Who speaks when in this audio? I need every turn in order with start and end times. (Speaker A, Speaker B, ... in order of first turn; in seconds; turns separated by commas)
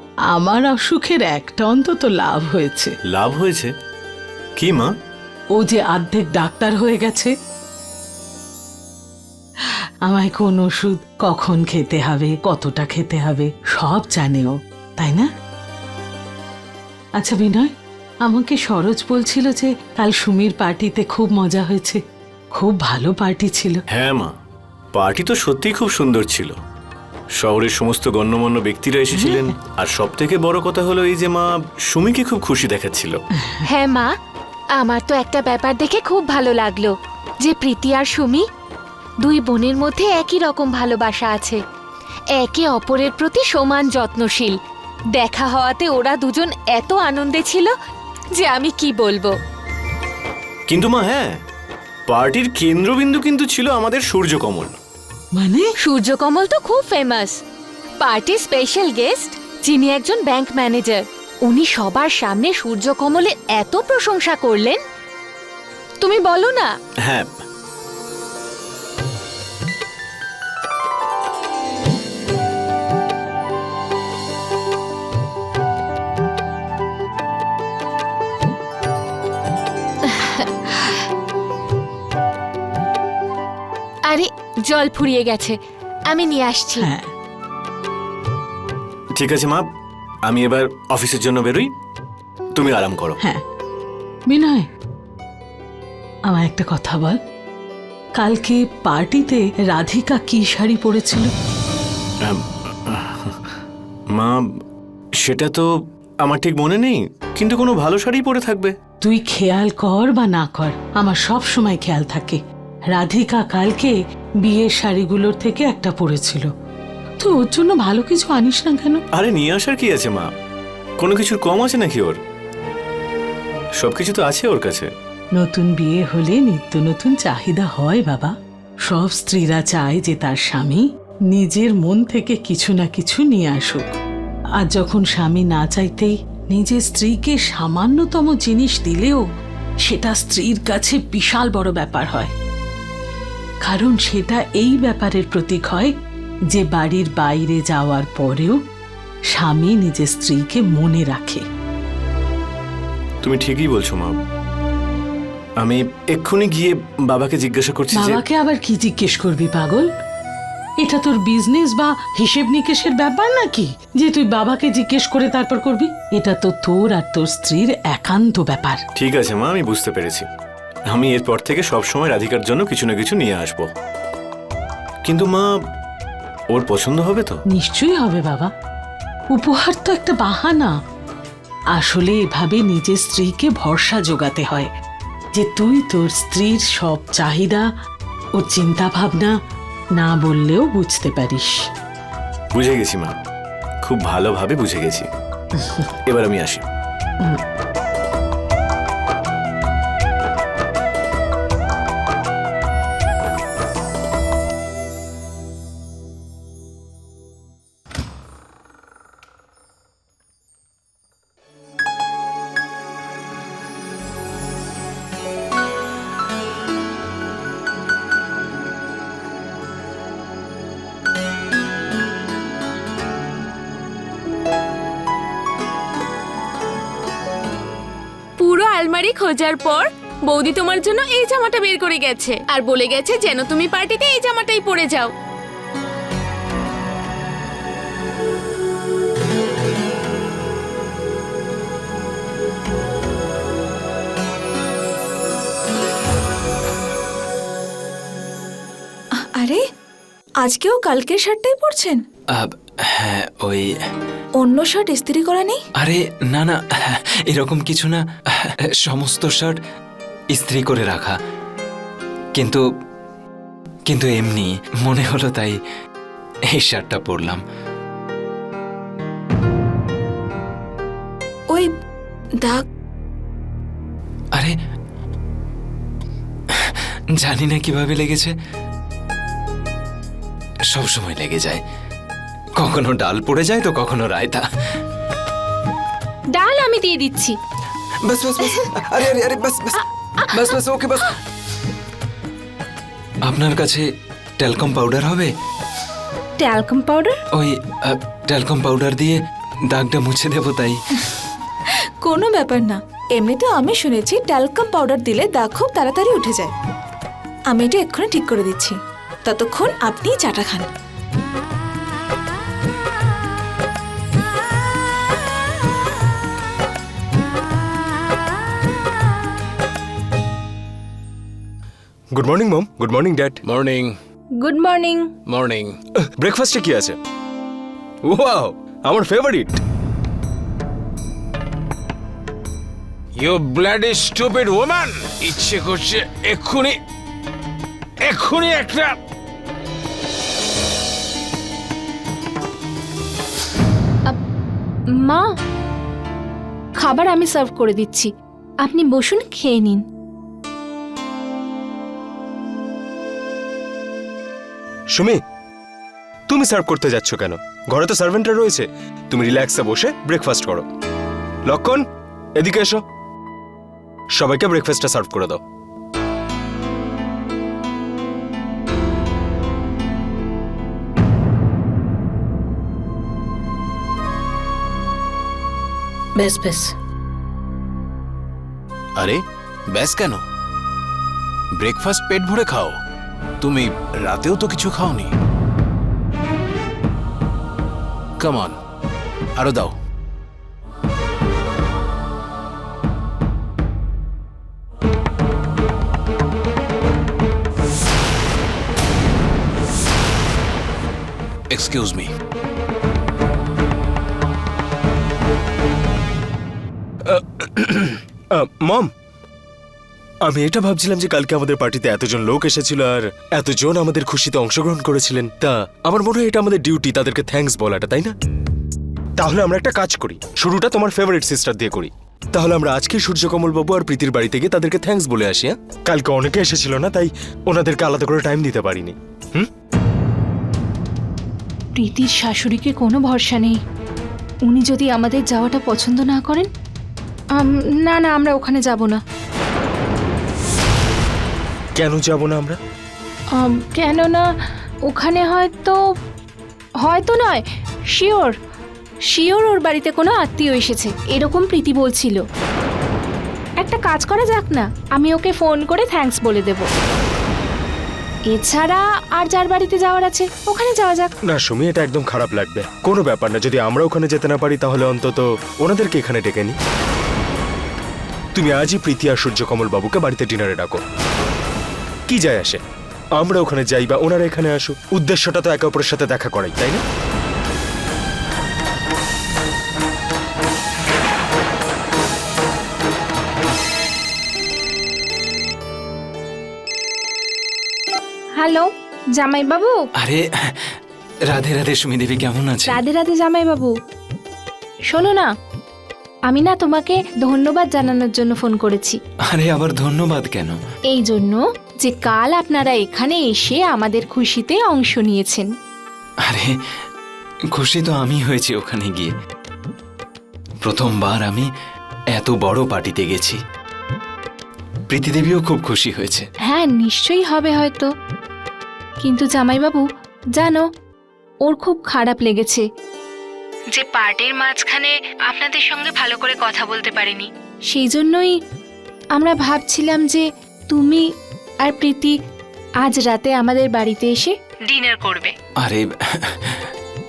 Speaker A: 0.3-2.9, Speaker B: 3.1-3.7, Speaker B: 4.6-4.9, Speaker A: 5.6-7.3, Speaker A: 10.1-15.3, Speaker A: 17.2-17.7, Speaker A: 18.2-22.0, Speaker A: 22.6-23.8, Speaker B: 23.9-24.3, Speaker B: 24.9-26.6, Speaker B: 27.4-33.2, Speaker A: 29.1-29.6, Speaker C: 33.7-34.1, Speaker C: 34.8-38.5, Speaker C: 39.2-41.6, Speaker C: 42.4-44.6, Speaker C: 45.1-47.7, Speaker C: 48.4-49.4, Speaker B: 50.7-51.3, Speaker B: 52.1-54.8, Speaker A: 55.4-55.7, Speaker C: 55.8-57.4, Speaker C: 58.0-64.8, Speaker C: 66.0-66.7, Speaker B: 67.0-67.3, Speaker C: 84.1-86.9, Speaker A: 86.8-87.1, Speaker B: 89.2-89.7, Speaker B: 90.3-91.7, Speaker B: 92.5-93.2, Speaker A: 94.3-94.7, Speaker A: 96.3-97.2, Speaker A: 98.2-101.3, Speaker B: 102.2-103.4, Speaker B: 104.1-104.4, Speaker B: 105.2-105.7, Speaker B: 106.2-108.7, Speaker A: 109.0-112.4, Speaker A: 112.9-116.5, Speaker A: 117.2-119.0, Speaker B: 119.1-120.3, Speaker B: 121.0-122.2, Speaker B: 123.8-124.9, Speaker A: 125.4-128.3, Speaker A: 128.9-133.9, Speaker A: 134.6-139.2, Speaker A: 139.9-142.3, Speaker A: 143.6-145.9, Speaker A: 146.5-148.6, Speaker A: 149.3-151.4, Speaker B: 153.2-154.2, Speaker B: 155.6-158.2, Speaker A: 157.9-159.9, Speaker A: 160.8-168.8, Speaker B: 169.0-170.3, Speaker B: 170.9-173.7, Speaker B: 175.1-175.5, Speaker B: 176.5-177.4, Speaker A: 177.5-178.5, Speaker A: 179.3-180.7, Speaker A: 181.8-184.7, Speaker A: 185.3-187.7, Speaker A: 188.4-189.3, Speaker A: 190.0-191.6, Speaker B: 192.5-193.2, Speaker B: 193.8-195.1, Speaker B: 196.1-196.6, Speaker D: 228.4-235.1, Speaker E: 249.2-249.6, Speaker E: 250.4-252.0, Speaker F: 252.3-253.7, Speaker E: 254.4-255.6, Speaker F: 255.8-259.6, Speaker F: 260.3-261.2, Speaker F: 262.4-262.6, Speaker F: 263.9-265.6, Speaker F: 266.5-267.4, Speaker F: 276.6-278.3, Speaker F: 280.7-281.6, Speaker F: 282.6-284.4, Speaker G: 286.3-287.4, Speaker F: 288.1-291.1, Speaker F: 293.3-293.8, Speaker F: 294.4-295.3, Speaker G: 296.4-297.2, Speaker F: 297.4-299.2, Speaker F: 299.7-300.8, Speaker E: 302.0-306.5, Speaker E: 307.5-310.7, Speaker H: 322.1-323.4, Speaker I: 323.4-323.9, Speaker G: 324.4-325.1, Speaker I: 325.3-325.8, Speaker H: 326.2-327.0, Speaker H: 328.1-329.6, Speaker I: 333.2-336.8, Speaker I: 338.0-339.0, Speaker G: 345.0-345.3, Speaker G: 346.8-348.1, Speaker G: 348.6-349.8, Speaker H: 356.3-360.6, Speaker H: 361.5-361.8, Speaker H: 362.4-362.8, Speaker H: 364.1-365.4, Speaker A: 376.2-376.7, Speaker I: 379.0-380.2, Speaker I: 381.6-382.8, Speaker I: 383.4-385.1, Speaker I: 388.2-388.6, Speaker I: 389.4-389.7, Speaker I: 401.5-402.1, Speaker H: 407.1-408.9, Speaker H: 410.2-418.1, Speaker H: 419.2-429.5, Speaker G: 431.8-433.6, Speaker G: 434.5-436.5, Speaker G: 437.4-439.0, Speaker H: 441.8-442.6, Speaker G: 443.3-444.2, Speaker G: 444.9-445.8, Speaker G: 446.8-447.4, Speaker G: 447.9-448.3, Speaker G: 449.1-452.2, Speaker G: 453.6-456.7, Speaker G: 458.3-461.1, Speaker H: 461.3-466.6, Speaker H: 468.3-470.8, Speaker H: 472.1-472.6, Speaker H: 473.2-476.8, Speaker G: 488.4-489.8, Speaker F: 490.0-490.7, Speaker F: 491.3-492.8, Speaker G: 492.7-493.7, Speaker G: 494.9-495.3, Speaker G: 496.3-499.0, Speaker F: 499.3-500.6, Speaker G: 500.9-505.5, Speaker F: 506.3-506.5, Speaker F: 507.5-509.1, Speaker F: 510.6-511.5, Speaker F: 512.1-513.4, Speaker F: 514.9-516.3, Speaker G: 516.5-517.9, Speaker G: 519.0-519.8, Speaker G: 520.4-520.6, Speaker G: 521.5-522.6, Speaker G: 523.7-528.3, Speaker G: 529.2-531.0, Speaker G: 531.6-532.1, Speaker G: 532.8-535.3, Speaker F: 535.6-536.6